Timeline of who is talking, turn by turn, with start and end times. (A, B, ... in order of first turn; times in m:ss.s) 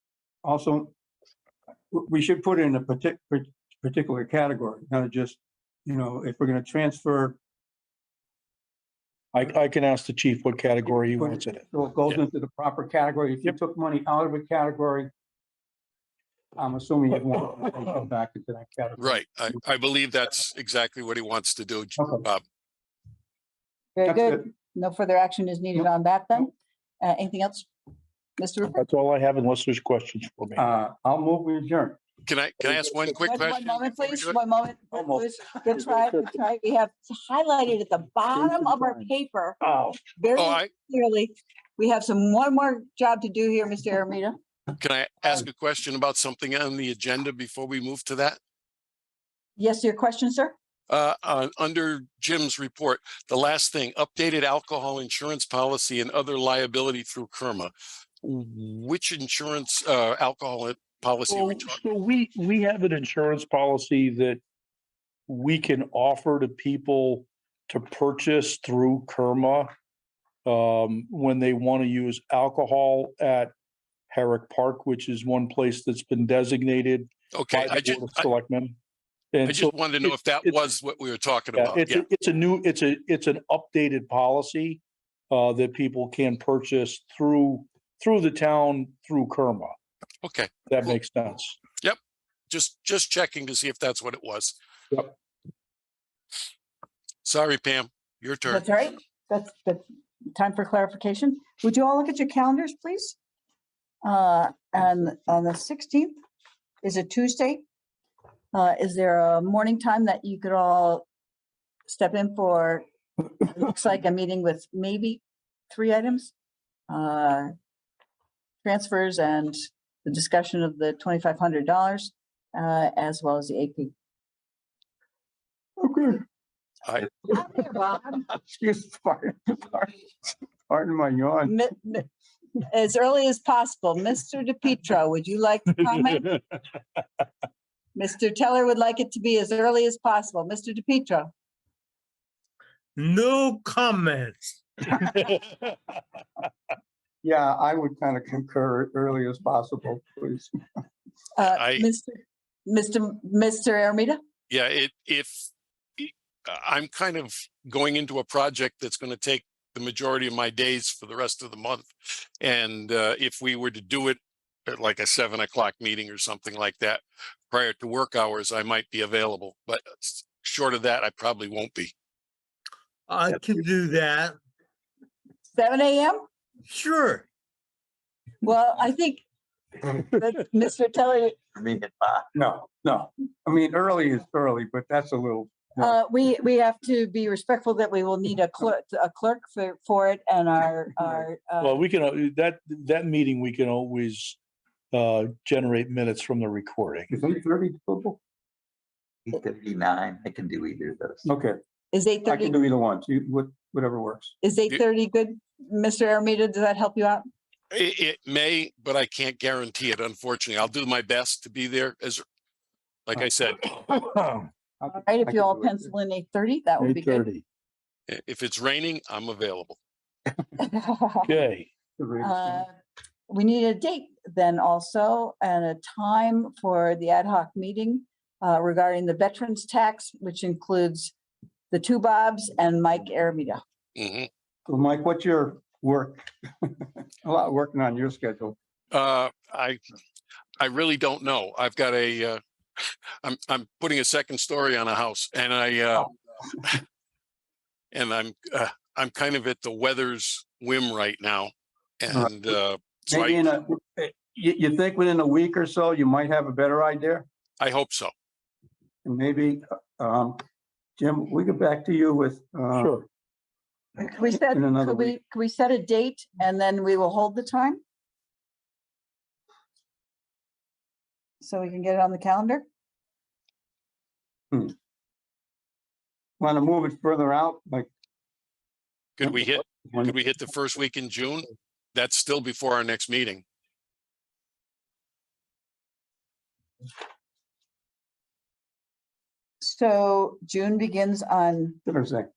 0:00.4-0:00.9 A
0:01.9-0:07.4 A
0:09.3-0:11.6 B
0:11.0-0:15.1 A
0:16.6-0:19.4 A
0:19.0-0:22.4 C
0:22.0-0:22.2 A
0:24.0-0:27.7 D
0:24.0-0:24.4 A
0:28.4-0:28.8 D
0:28.8-0:30.7 B
0:30.6-0:32.0 A
0:32.2-0:34.4 C
0:32.6-0:33.4 B
0:33.2-0:39.6 D
0:35.1-0:36.3 B
0:38.3-0:39.1 B
0:39.6-0:40.0 B
0:40.2-0:44.4 D
0:40.3-0:40.7 C
0:44.8-0:48.4 C
0:49.6-0:50.6 D
0:50.9-1:01.8 C
1:01.3-1:04.4 B
1:05.3-1:09.7 B
1:10.4-1:13.5 B
1:14.1-1:18.8 B
1:17.3-1:18.3 C
1:19.3-1:20.6 B
1:19.4-1:22.0 C
1:21.6-1:29.7 B
1:30.2-1:30.9 C
1:30.7-1:31.6 B
1:32.5-1:34.6 C
1:37.2-1:38.7 C
1:38.5-1:43.2 D
1:44.0-1:46.2 D
1:46.8-1:47.6 D
1:48.5-1:51.1 D
1:51.9-1:52.8 D
1:53.4-1:56.3 D
1:56.9-1:57.5 D
1:58.6-2:03.9 D
2:05.8-2:06.2 A
2:07.3-2:08.2 D
2:08.3-2:09.9 A
2:10.7-2:11.5 A
2:11.5-2:12.1 D
2:12.7-2:16.3 D
2:18.0-2:21.3 D
2:23.0-2:24.6 E
2:25.0-2:25.3 B
2:27.2-2:30.5 A
2:31.3-2:34.2 D
2:31.4-2:31.9 C
2:34.5-2:51.9 C
2:53.1-2:54.4 E
2:55.6-2:56.2 D
2:56.7-2:57.2 E
2:58.4-2:59.2 D
2:59.9-3:01.4 D
3:01.6-3:02.2 F
3:02.3-3:06.0 A
3:05.8-3:11.8 D
3:11.6-3:14.4 B
3:14.9-3:17.1 B
3:17.1-3:18.2 A
3:19.3-3:21.3 F
3:21.2-3:21.6 A
3:21.9-3:22.6 D
3:22.3-3:24.3 A
3:24.4-3:27.2 D
3:27.7-3:32.2 C
3:33.1-3:33.7 C
3:33.7-3:34.5 B
3:34.8-3:35.9 A
3:34.9-3:37.2 D
3:36.8-3:37.4 B
3:38.1-3:39.8 C
3:40.6-3:41.3 D
3:41.2-3:41.7 B
3:42.0-3:42.6 A
3:42.2-3:42.7 D
3:43.3-3:51.1 D
3:51.7-3:53.6 D
3:54.0-3:54.3 C
3:54.7-3:58.6 A
3:58.9-3:59.8 C
4:00.6-4:06.8 C
4:07.9-4:13.5 C
4:12.1-4:12.4 A
4:13.1-4:17.2 A
4:17.6-4:18.1 C
4:19.0-4:20.4 A
4:21.0-4:23.0 A
4:22.8-4:23.1 B
4:24.0-4:27.8 D
4:24.3-4:25.2 A
4:31.4-4:32.7 D
4:36.4-4:37.9 A
4:39.2-4:43.4 C
4:39.2-4:40.2 A
4:49.6-4:51.8 D
4:51.8-4:52.3 A